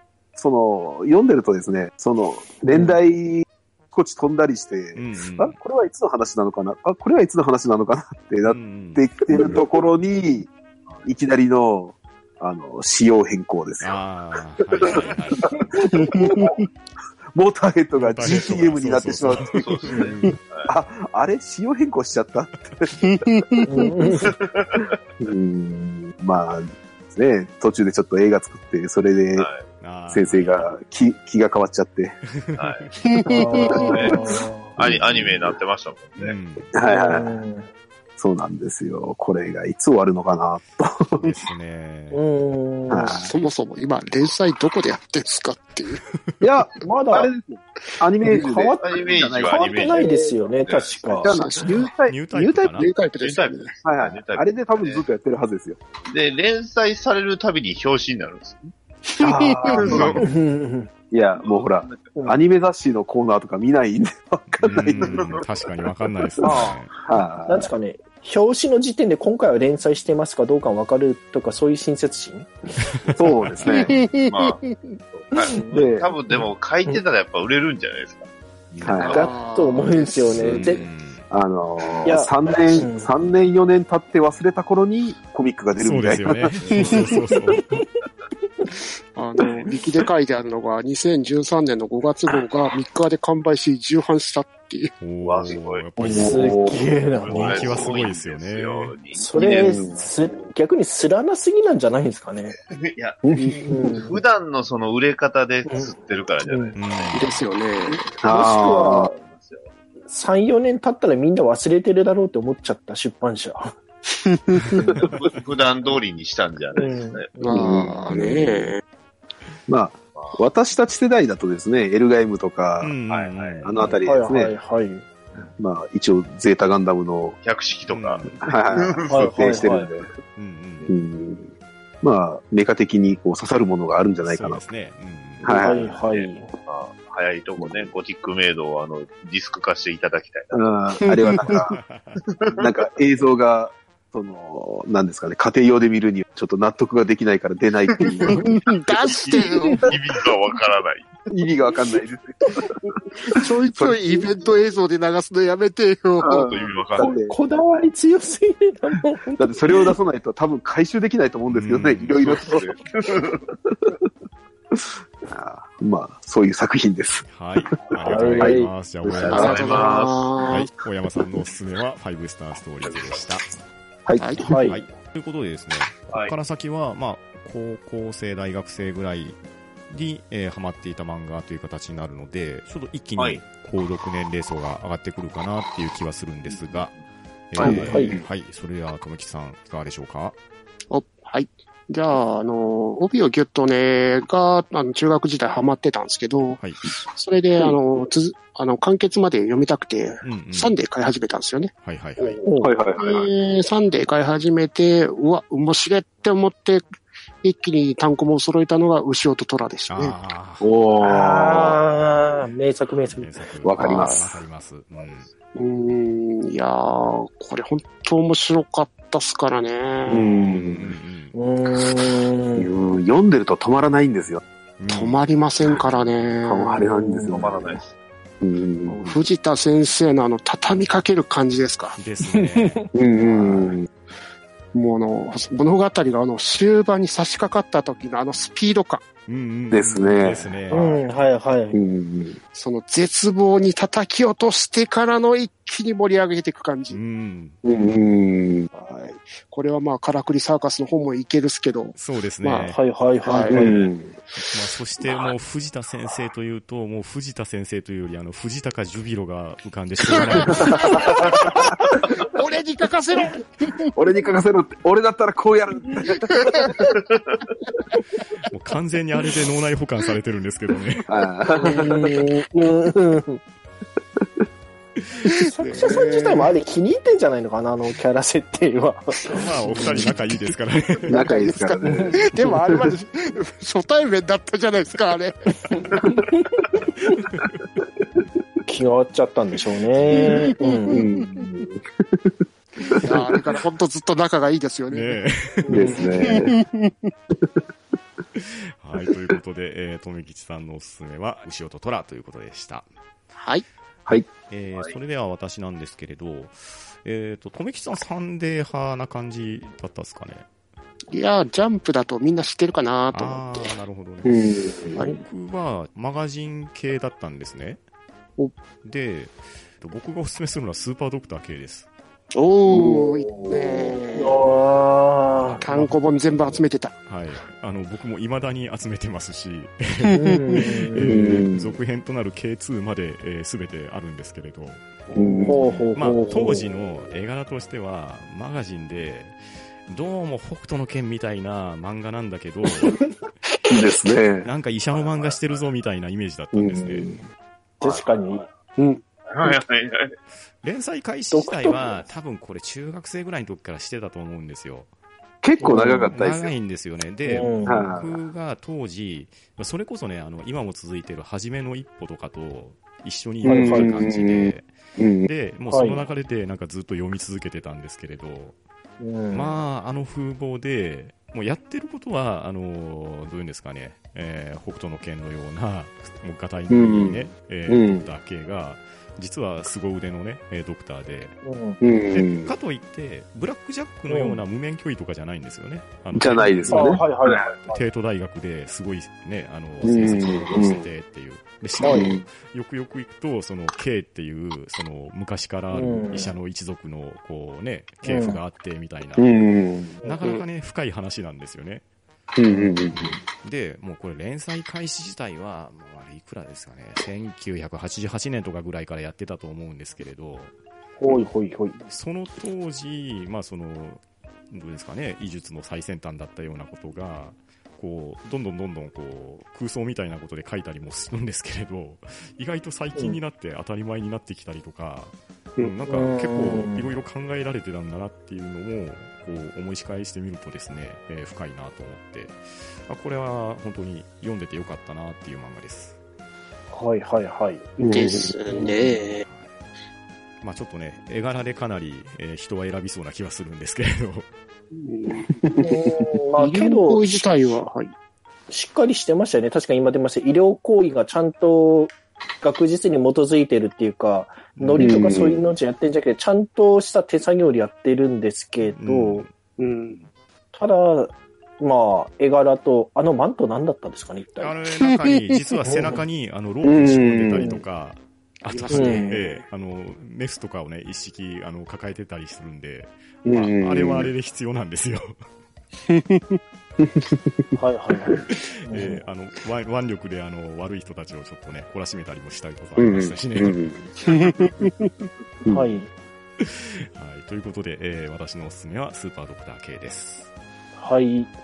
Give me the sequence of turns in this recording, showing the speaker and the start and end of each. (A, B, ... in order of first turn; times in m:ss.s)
0:00.4-0:10.5 A
0:02.7-0:03.0 B
0:04.9-0:05.6 C
0:08.4-0:09.1 C
0:10.9-0:11.1 D
0:11.0-0:14.0 A
0:13.8-0:15.6 C
0:14.8-0:16.5 A
0:15.9-0:16.6 E
0:17.3-0:20.0 A
0:18.0-0:20.4 C
0:19.4-0:20.7 D
0:20.6-0:23.2 A
0:23.1-0:23.9 E
0:23.6-0:24.3 B
0:24.2-0:25.0 D
0:25.2-0:29.5 A
0:29.3-0:29.7 D
0:29.8-0:30.7 C
0:30.1-0:32.2 A
0:32.4-0:32.9 C
0:32.6-0:32.9 D
0:33.0-0:33.9 E
0:33.3-0:34.7 B
0:33.6-0:36.3 D
0:33.6-0:35.5 A
0:36.2-0:36.7 C
0:36.7-0:37.4 A
0:36.8-0:37.7 B
0:38.2-0:41.3 A
0:41.1-0:42.2 C
0:42.1-0:43.3 B
0:42.9-0:43.3 A
0:43.2-0:46.0 E
0:46.4-0:50.4 A
0:46.8-0:47.3 B
0:48.2-0:51.5 B
0:48.8-0:51.3 D
0:51.0-0:52.8 A
0:51.3-0:51.9 E
0:52.1-0:52.9 C
0:52.7-0:53.7 E
0:53.2-0:55.1 D
0:53.8-0:55.8 A
0:56.1-0:58.7 D
0:59.1-0:59.9 E
0:59.2-1:00.2 A
0:59.7-1:00.3 D
0:59.8-1:00.2 C
1:00.2-1:00.9 B
1:01.1-1:05.4 A
1:01.3-1:02.1 D
1:04.6-1:06.9 C
1:05.0-1:05.6 D
1:06.4-1:07.7 A
1:06.4-1:06.7 B
1:07.4-1:12.5 B
1:12.8-1:13.9 C
1:13.1-1:14.0 A
1:13.7-1:14.8 E
1:14.3-1:19.3 D
1:15.7-1:16.1 A
1:18.8-1:19.3 A
1:19.0-1:20.8 B
1:19.1-1:20.7 E
1:20.3-1:21.3 C
1:21.3-1:27.0 A
1:22.0-1:23.1 B
1:25.8-1:27.8 C
1:27.6-1:27.9 B
1:29.1-1:34.9 E
1:35.0-1:36.6 C
1:35.2-1:35.9 D
1:36.0-1:37.9 B
1:36.0-1:36.8 A
1:37.1-1:39.8 D
1:37.2-1:38.9 C
1:39.1-1:42.6 B
1:39.4-1:40.1 A
1:42.8-1:47.4 D
1:43.2-1:44.0 A
1:43.6-1:44.2 B
1:45.7-1:46.7 B
1:46.7-1:47.3 C
1:47.1-1:48.1 E
1:48.2-1:49.1 A
1:48.3-1:49.1 B
1:48.3-1:49.7 D
1:50.1-1:53.7 B
1:54.2-1:54.8 E
1:54.7-1:55.1 B
1:55.1-1:57.3 D
1:56.8-1:57.7 B
1:57.4-1:58.8 E
1:57.5-1:58.7 A
1:59.7-2:02.9 A
2:00.1-2:00.4 D
2:02.8-2:03.8 C
2:03.1-2:03.9 D
2:03.6-2:04.5 A
2:04.0-2:05.0 B
2:05.6-2:07.4 A
2:07.4-2:10.0 D
2:07.9-2:08.4 C
2:08.4-2:10.1 A
2:09.1-2:09.9 B
2:10.4-2:10.9 C
2:10.9-2:11.5 A
2:12.0-2:14.7 A
2:14.2-2:15.6 C
2:15.4-2:15.8 A
2:15.5-2:16.5 B
2:15.6-2:20.6 D
2:17.6-2:17.9 A
2:20.5-2:21.8 A
2:21.2-2:21.5 E
2:21.5-2:22.2 C
2:22.6-2:28.4 A
2:28.3-2:29.9 E
2:28.9-2:31.2 D
2:31.3-2:32.7 A
2:33.3-2:36.5 E
2:33.7-2:34.2 A
2:36.2-2:37.4 A
2:36.3-2:37.2 D
2:37.0-2:39.8 B
2:39.4-2:42.7 A
2:41.5-2:42.4 C
2:42.1-2:43.4 D
2:44.7-2:47.3 A
2:47.3-2:53.5 C
2:48.0-2:49.8 A
2:48.0-2:48.7 B
2:49.1-2:50.5 D
2:49.3-2:50.7 E
2:54.0-2:54.5 A
2:54.2-2:54.6 E
2:54.4-2:54.8 B
2:54.5-2:59.4 C
2:56.1-2:56.3 D
2:59.9-3:07.0 C
3:03.2-3:03.4 D
3:07.5-3:10.4 C
3:07.6-3:08.2 A
3:07.6-3:08.2 B
3:10.9-3:22.4 E
3:16.6-3:16.8 C
3:20.2-3:20.8 C
3:21.8-3:22.4 C
3:22.4-3:22.8 B
3:22.6-3:23.3 A
3:23.0-3:26.9 E
3:27.4-3:30.2 E
3:29.9-3:30.7 C
3:30.6-3:31.8 A
3:31.0-3:33.3 B
3:32.9-3:35.3 C
3:33.6-3:34.3 A
3:33.8-3:34.3 E
3:35.5-3:40.6 E
3:40.1-3:40.9 A
3:40.6-3:41.3 C
3:41.3-3:42.7 B
3:42.6-3:44.4 A
3:44.8-3:46.4 C
3:44.9-3:46.8 E
3:46.4-3:47.8 A
3:46.8-3:47.4 B
3:47.3-3:47.9 D
3:48.4-3:49.2 A
3:48.8-3:52.0 E
3:52.0-3:52.8 C
3:52.4-3:52.9 B
3:52.9-3:53.9 A
3:53.3-3:53.7 E
3:54.7-3:59.0 E
3:59.3-4:01.1 C
3:59.7-4:00.6 A
4:00.7-4:01.8 B
4:01.7-4:02.4 A
4:02.5-4:07.0 E
4:06.9-4:07.6 C
4:07.6-4:08.7 A
4:08.7-4:13.8 E
4:12.0-4:12.8 C
4:12.6-4:13.8 B
4:13.5-4:14.2 A
4:14.4-4:21.1 C
4:20.1-4:23.9 E
4:20.5-4:21.2 A
4:23.9-4:26.7 A
4:26.1-4:26.7 E
4:28.5-4:31.1 C
4:31.1-4:32.2 A
4:31.6-4:33.4 B
4:35.0-4:35.3 C
4:35.3-4:36.5 E
4:35.4-4:40.1 B
4:39.3-4:41.2 C
4:39.6-4:40.5 E
4:41.1-4:45.3 E
4:41.1-4:42.9 A
4:41.2-4:42.2 B
4:45.7-4:47.2 B
4:47.2-4:47.5 C
4:48.6-4:51.0 B
4:50.0-4:51.2 E
4:50.9-4:53.2 A
4:53.0-4:55.2 E
4:54.9-4:56.0 C
4:55.6-4:56.1 B
4:55.7-4:56.6 A
4:55.9-4:57.1 E
4:58.4-5:02.8 C
5:03.4-5:03.6 E
5:04.5-5:10.4 C
5:11.1-5:13.7 E
5:13.1-5:17.8 C
5:14.2-5:15.0 A
5:15.0-5:15.2 E
5:18.8-5:21.9 C
5:22.3-5:24.4 E
5:22.7-5:24.0 A
5:24.1-5:25.6 B
5:25.4-5:43.0 C
5:25.6-5:26.9 E
5:30.1-5:31.3 B
5:30.1-5:30.6 E
5:31.0-5:31.8 A
5:35.1-5:36.7 B
5:35.1-5:35.6 A
5:43.7-5:44.5 A
5:44.4-5:47.1 C
5:44.9-5:45.6 D
5:46.5-5:47.2 A
5:47.8-5:48.5 B
5:47.8-5:48.3 D
5:48.8-5:49.0 E
5:49.3-5:50.1 D
5:50.6-5:54.9 C
5:51.3-5:52.0 B
5:55.4-5:56.5 A
5:55.6-5:56.1 B
5:55.6-6:04.7 C
5:57.2-5:57.9 B
5:57.5-5:58.2 A
6:03.4-6:05.3 A
6:03.4-6:04.0 B
6:05.2-6:08.6 C
6:05.7-6:06.1 B
6:09.0-6:09.5 B
6:09.3-6:21.4 C
6:16.7-6:18.1 A
6:21.4-6:21.8 B
6:21.8-6:22.5 A
6:22.1-6:39.4 C
6:24.1-6:24.4 B
6:26.1-6:27.4 A
6:26.7-6:27.8 B
6:29.8-6:30.8 A
6:31.8-6:32.1 B
6:31.8-6:32.2 A
6:35.7-6:36.3 B
6:38.0-6:38.4 B
6:39.2-6:40.0 A
6:40.0-6:41.8 C
6:42.4-6:43.2 A
6:42.9-6:50.5 C
6:51.0-6:51.8 B
6:51.9-7:16.0 C
7:05.8-7:06.9 B
7:16.7-7:17.8 B
7:17.8-7:18.4 A
7:17.8-7:19.2 E
7:19.2-7:19.5 C
7:20.4-7:24.3 C
7:24.7-7:25.6 E
7:25.4-7:25.7 A
7:25.6-7:27.6 B
7:26.4-7:27.9 E
7:28.5-7:39.2 B
7:34.5-7:35.0 C
7:34.8-7:35.4 A
7:38.6-7:39.3 C
7:39.6-7:40.0 E
7:40.5-7:44.6 B
7:44.4-7:55.1 C
7:45.6-7:46.0 B
7:46.6-7:47.6 A
7:47.3-7:47.6 B
7:48.4-7:49.4 E
7:48.7-7:49.3 B
7:53.2-7:54.1 A
7:55.9-7:56.4 E
7:56.8-7:57.5 A
7:57.6-7:59.0 B
7:58.3-8:04.7 C
8:02.8-8:03.9 A
8:04.1-8:04.9 E
8:05.4-8:05.7 A
8:05.5-8:05.9 B
8:06.4-8:10.3 C
8:10.8-8:11.3 B